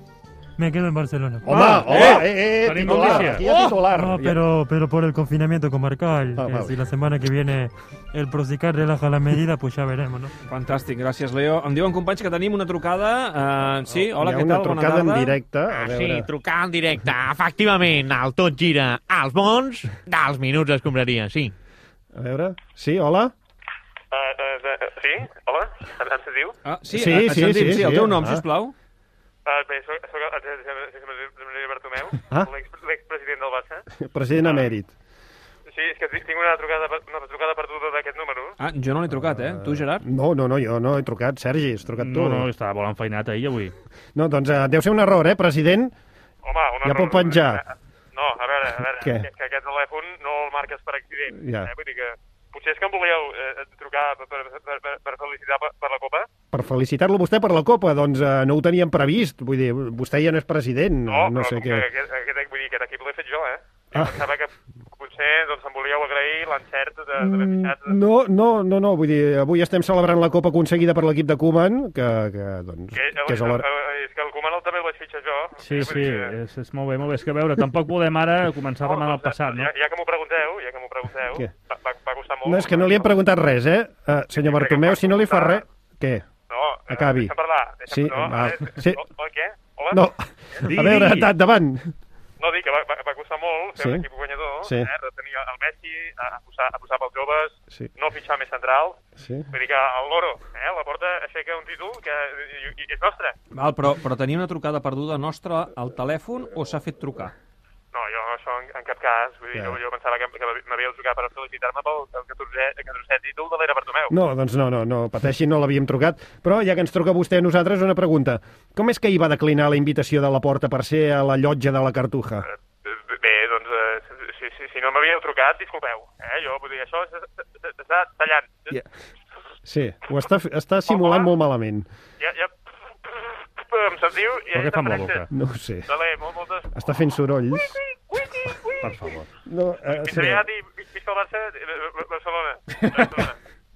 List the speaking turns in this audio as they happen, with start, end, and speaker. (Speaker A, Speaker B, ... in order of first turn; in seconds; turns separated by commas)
Speaker A: 0.6-2.2, Speaker B: 1.4-4.4, Speaker C: 1.5-2.2, Speaker D: 2.6-3.7, Speaker A: 2.9-3.2, Speaker A: 3.9-10.3, Speaker B: 6.4-6.8, Speaker C: 10.5-15.3, Speaker B: 13.9-16.3, Speaker E: 15.7-21.5, Speaker B: 22.1-23.3, Speaker F: 24.1-26.6, Speaker C: 26.6-28.7, Speaker B: 26.9-28.4, Speaker F: 29.4-33.8, Speaker B: 33.9-34.9, Speaker F: 34.3-34.7, Speaker F: 35.7-38.6, Speaker C: 38.6-40.0, Speaker B: 39.3-42.5, Speaker D: 42.0-43.7, Speaker B: 44.1-45.9, Speaker F: 46.4-56.3, Speaker B: 46.8-47.6, Speaker B: 49.0-49.3, Speaker B: 51.4-51.7, Speaker B: 56.5-61.9, Speaker F: 61.1-68.0, Speaker B: 67.2-73.6, Speaker F: 72.9-76.3, Speaker D: 75.7-79.7, Speaker F: 78.8-83.2, Speaker B: 82.4-86.2, Speaker F: 84.3-85.6, Speaker F: 86.5-90.0, Speaker B: 86.9-87.3, Speaker B: 87.9-89.0, Speaker B: 89.9-91.9, Speaker D: 90.7-91.3, Speaker F: 92.4-99.0, Speaker B: 93.8-94.0, Speaker B: 94.6-94.9, Speaker B: 99.2-99.5, Speaker F: 99.5-103.3, Speaker C: 103.5-107.3, Speaker F: 107.9-114.1, Speaker B: 114.1-122.5, Speaker F: 122.8-128.8, Speaker B: 129.6-131.9, Speaker F: 130.9-131.3, Speaker F: 132.2-132.5, Speaker F: 133.0-135.2, Speaker D: 134.5-135.3, Speaker B: 135.3-135.9, Speaker F: 135.9-136.7, Speaker B: 136.7-137.8, Speaker F: 137.5-139.1, Speaker D: 138.8-139.3, Speaker B: 139.5-140.4, Speaker F: 139.9-143.3